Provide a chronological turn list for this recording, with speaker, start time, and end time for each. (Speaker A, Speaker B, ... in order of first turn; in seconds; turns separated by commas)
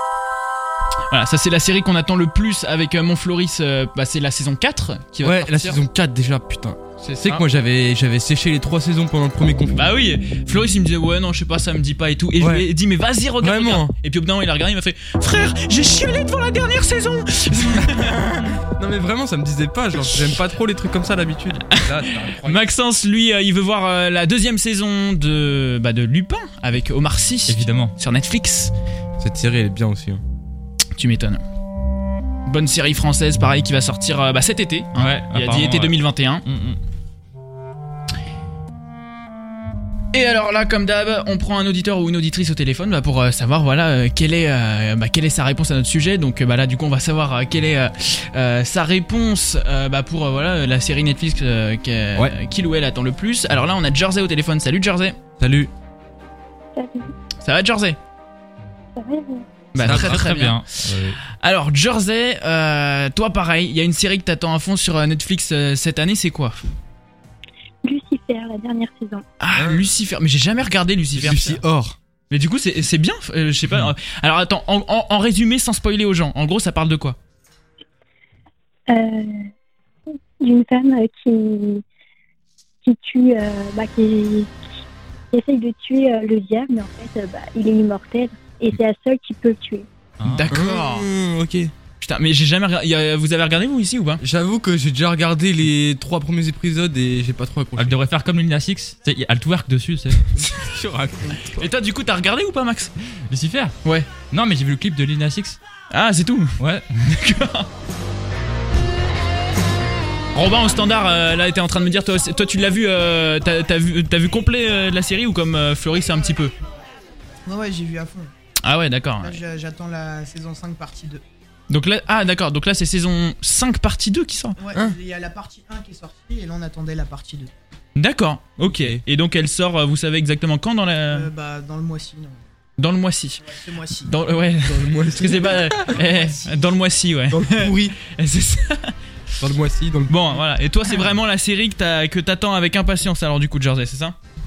Speaker A: 1.1-5.8, Speaker B: 5.2-9.9, Speaker A: 7.0-7.4, Speaker A: 9.7-18.2, Speaker B: 12.4-12.7, Speaker B: 13.4-13.9, Speaker B: 17.7-22.7, Speaker A: 21.7-28.7, Speaker C: 27.5-27.9, Speaker B: 29.2-30.2, Speaker A: 30.9-31.4, Speaker A: 32.5-36.5, Speaker C: 34.9-36.8, Speaker A: 40.1-55.2, Speaker B: 55.4-55.7, Speaker D: 56.8-57.1, Speaker A: 57.4-58.0, Speaker D: 59.0-59.7, Speaker A: 59.7-60.6, Speaker B: 59.8-60.2, Speaker C: 59.8-61.2, Speaker A: 61.3-66.5, Speaker D: 67.8-69.2, Speaker A: 69.4-71.6, Speaker B: 69.5-69.9, Speaker B: 71.2-72.0, Speaker A: 72.3-77.2, Speaker D: 78.9-79.5, Speaker D: 80.4-81.8, Speaker D: 82.8-84.5, Speaker D: 85.3-89.9, Speaker C: 90.2-90.5, Speaker A: 90.2-91.1, Speaker B: 90.5-91.7, Speaker A: 92.0-94.2, Speaker B: 94.2-98.0, Speaker C: 97.8-100.7, Speaker B: 100.6-101.5, Speaker A: 101.5-102.9, Speaker C: 103.3-103.8, Speaker A: 103.8-104.1, Speaker C: 104.3-105.6, Speaker A: 105.9-107.7, Speaker C: 106.6-107.2, Speaker A: 110.3-116.5, Speaker E: 117.5-118.3, Speaker A: 118.6-119.4, Speaker E: 119.2-121.2, Speaker A: 121.7-124.6, Speaker E: 124.6-127.5, Speaker A: 128.0-131.3, Speaker B: 128.6-129.0, Speaker E: 131.1-132.4, Speaker A: 132.8-133.4, Speaker E: 133.5-134.1, Speaker A: 134.0-138.9, Speaker B: 134.6-135.9, Speaker E: 135.8-136.7, Speaker B: 137.3-137.9, Speaker B: 139.4-140.2, Speaker A: 140.1-144.2